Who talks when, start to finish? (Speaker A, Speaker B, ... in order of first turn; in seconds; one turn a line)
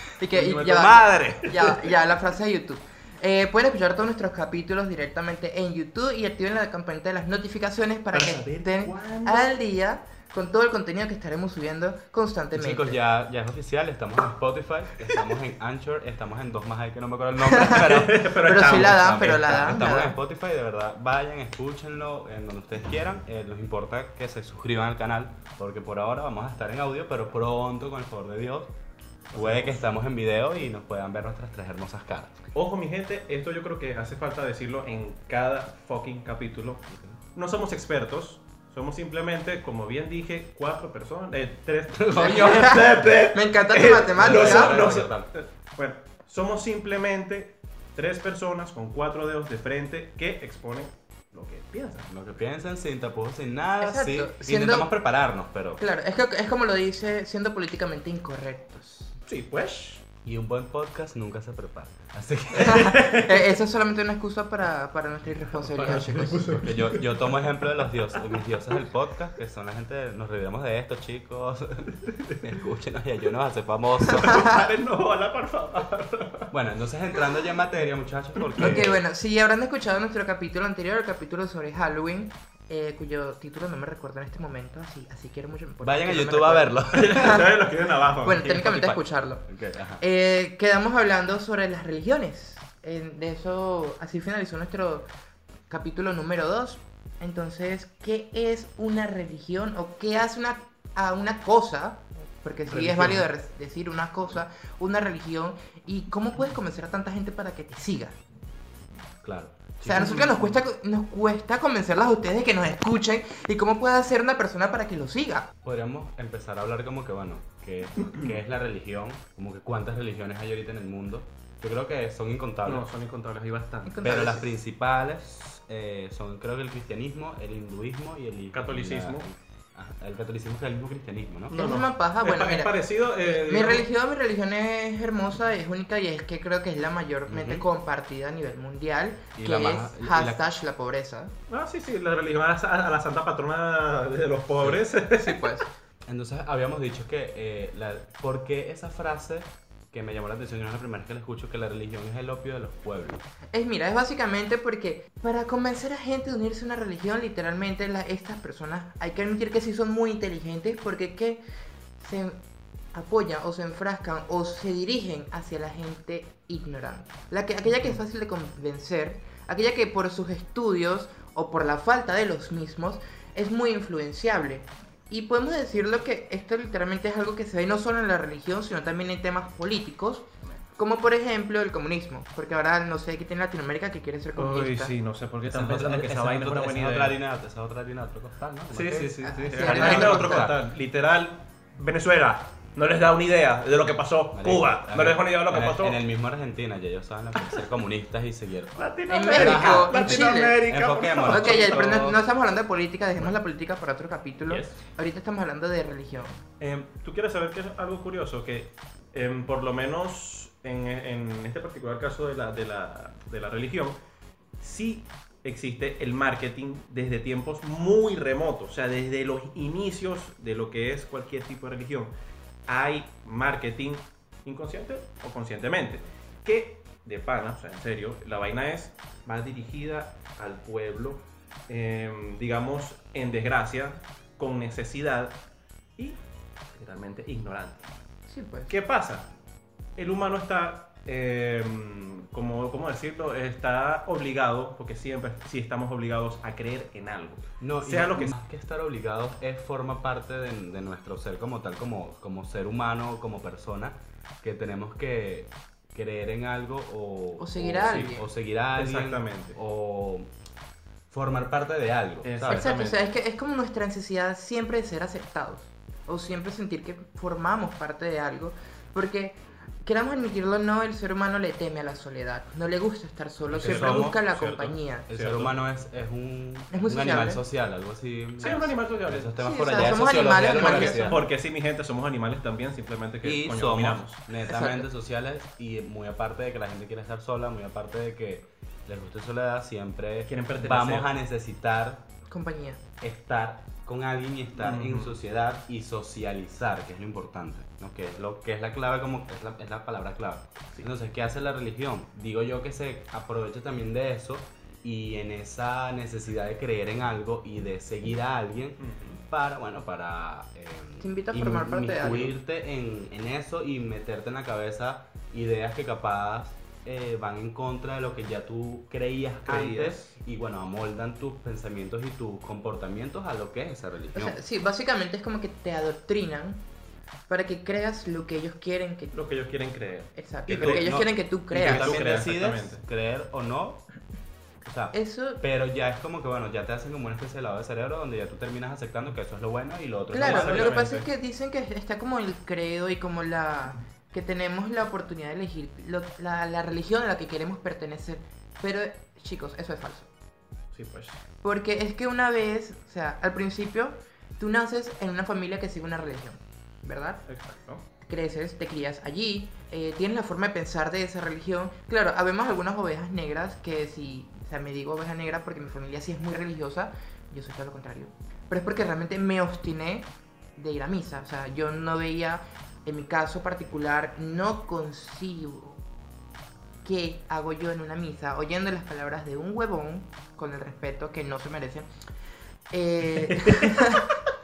Speaker A: 0.2-13.0
Speaker B: 0.3-1.2
Speaker C: 0.3-1.9
Speaker B: 8.1-9.6
Speaker C: 12.6-28.7
Speaker A: 17.5-17.8
Speaker B: 17.6-19.6
Speaker A: 18.4-20.1
Speaker C: 29.3-32.4
Speaker B: 29.3-30.0
Speaker B: 32.5-52.1
Speaker C: 36.9-37.2
Speaker C: 41.9-43.2
Speaker A: 42.1-45.0
Speaker C: 43.9-45.3
Speaker C: 52.1-55.8
Speaker A: 53.8-54.9
Speaker A: 55.8-59.2
Speaker B: 59.2-60.0
Speaker C: 60.2-63.0
Speaker A: 62.6-66.5
Speaker B: 62.6-63.6
Speaker B: 65.5-68.2
Speaker C: 66.3-74.7
Speaker B: 74.1-76.5
Speaker C: 76.5-79.0
Speaker B: 78.4-78.8
Speaker A: 78.6-87.5
Speaker C: 85.8-87.5
Speaker B: 86.9-88.5
Speaker A: 88.2-89.4
Speaker C: 88.4-90.0
Speaker A: 90.0-95.1
Speaker A: 95.7-108.2
Speaker B: 102.7-103.2
Speaker C: 109.2-110.5
Speaker B: 109.9-110.5
Speaker A: 109.9-115.5
Speaker C: 115.6-122.8
Speaker B: 122.7-124.4
Speaker A: 123.9-124.4
Speaker C: 124.0-131.6
Speaker B: 128.5-129.3
Speaker A: 131.5-141.3
Speaker B: 131.5-133.9
Speaker C: 137.3-137.6
Speaker C: 139.4-140.4
Speaker B: 141.5-145.6
Speaker C: 144.6-144.9
Speaker A: 145.2-145.7
Speaker C: 146.1-153.2
Speaker A: 153.5-161.4
Speaker A: 162.0-162.4
Speaker A: 162.9-180.2
Speaker A: 180.8-184.9
Speaker B: 184.4-187.2
Speaker C: 185.5-190.6
Speaker B: 188.7-196.0
Speaker A: 189.2-190.5
Speaker C: 194.3-202.2
Speaker B: 197.4-197.7
Speaker B: 198.8-202.1
Speaker A: 199.1-200.6
Speaker A: 201.3-206.4
Speaker B: 206.6-214.0
Speaker B: 214.6-222.1
Speaker B: 222.7-235.4
Speaker B: 236.8-237.9
Speaker A: 238.3-238.7
Speaker B: 238.7-239.3
Speaker B: 240.0-248.3
Speaker C: 247.6-260.3
Speaker A: 257.4-258.2
Speaker B: 258.8-259.6
Speaker C: 261.1-262.7
Speaker B: 262.2-263.0
Speaker A: 262.5-275.1
Speaker C: 273.5-274.2
Speaker B: 273.6-275.5
Speaker C: 275.1-281.2
Speaker A: 276.7-277.4
Speaker B: 278.4-284.2
Speaker A: 279.4-281.2
Speaker C: 283.2-292.1
Speaker A: 284.5-284.9
Speaker B: 290.3-291.1
Speaker A: 292.3-292.8
Speaker C: 293.0-324.4
Speaker B: 294.6-295.2
Speaker B: 308.8-309.2
Speaker A: 311.0-312.4
Speaker B: 319.5-320.1
Speaker A: 324.1-326.6
Speaker A: 327.3-329.1
Speaker B: 329.1-330.9
Speaker A: 330.1-331.9
Speaker C: 330.5-333.8
Speaker B: 331.5-332.8
Speaker C: 334.6-340.8
Speaker A: 334.9-335.4
Speaker A: 340.1-350.1
Speaker B: 340.2-341.1
Speaker B: 350.7-351.2
Speaker A: 351.4-357.2
Speaker B: 357.3-357.8
Speaker A: 358.1-375.8
Speaker A: 376.9-381.9
Speaker A: 382.7-384.0
Speaker B: 383.1-384.0